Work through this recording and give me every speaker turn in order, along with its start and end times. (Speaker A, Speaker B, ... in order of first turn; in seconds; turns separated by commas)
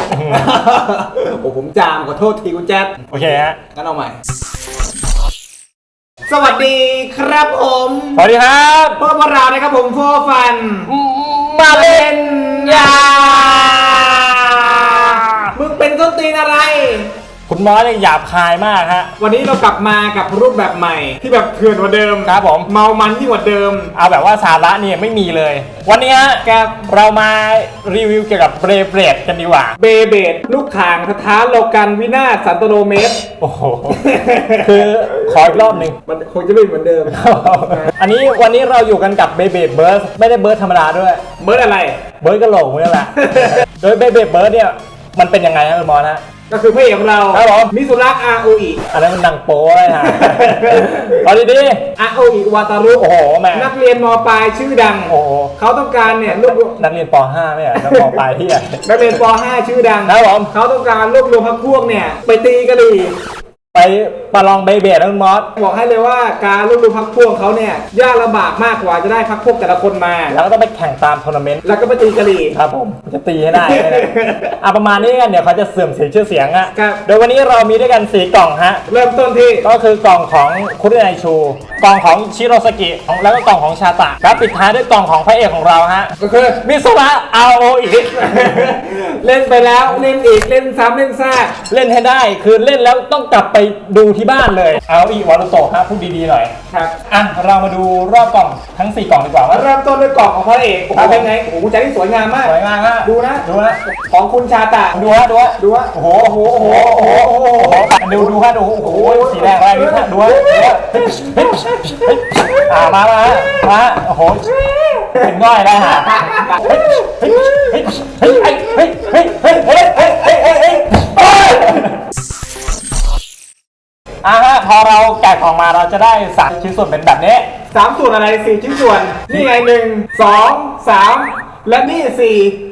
Speaker A: 0.1-0.5, Speaker B: 0.3-3.0, Speaker A: 3.1-3.6, Speaker B: 3.7-4.2, Speaker B: 6.3-8.2, Speaker A: 8.2-9.0, Speaker B: 9.0-10.9, Speaker A: 10.9-15.6, Speaker B: 11.6-17.1, Speaker A: 17.5-19.1, Speaker B: 19.2-23.9, Speaker A: 22.2-22.7, Speaker A: 23.9-29.8, Speaker B: 26.4-26.9, Speaker B: 29.8-33.2, Speaker A: 33.4-34.0, Speaker B: 33.9-37.9, Speaker A: 34.6-36.0, Speaker A: 37.1-41.2, Speaker B: 41.4-42.0, Speaker A: 42.2-46.2, Speaker B: 43.2-43.6, Speaker B: 46.5-48.8, Speaker A: 47.3-47.7, Speaker A: 48.9-51.9, Speaker B: 49.9-51.2, Speaker B: 52.0-56.8, Speaker A: 52.9-53.7, Speaker A: 55.1-55.5, Speaker A: 56.0-58.8, Speaker B: 57.8-58.2, Speaker B: 58.8-63.1, Speaker A: 60.0-60.5, Speaker A: 63.7-65.5, Speaker B: 65.6-70.4, Speaker A: 70.3-71.6, Speaker B: 71.6-72.6, Speaker A: 72.5-74.1, Speaker B: 73.5-74.5, Speaker A: 74.6-78.8, Speaker B: 76.7-77.0, Speaker B: 78.9-79.7, Speaker A: 79.6-86.1, Speaker B: 86.2-86.7, Speaker A: 86.6-88.8, Speaker B: 88.2-91.6, Speaker A: 91.7-96.5, Speaker B: 96.7-97.0, Speaker A: 97.1-99.7, Speaker B: 99.5-105.0, Speaker A: 100.9-101.3, Speaker A: 102.4-103.8, Speaker A: 104.9-121.9, Speaker B: 105.6-112.7, Speaker B: 114.5-115.2, Speaker B: 115.8-117.8, Speaker B: 119.6-121.8, Speaker A: 124.2-127.5, Speaker B: 127.7-132.6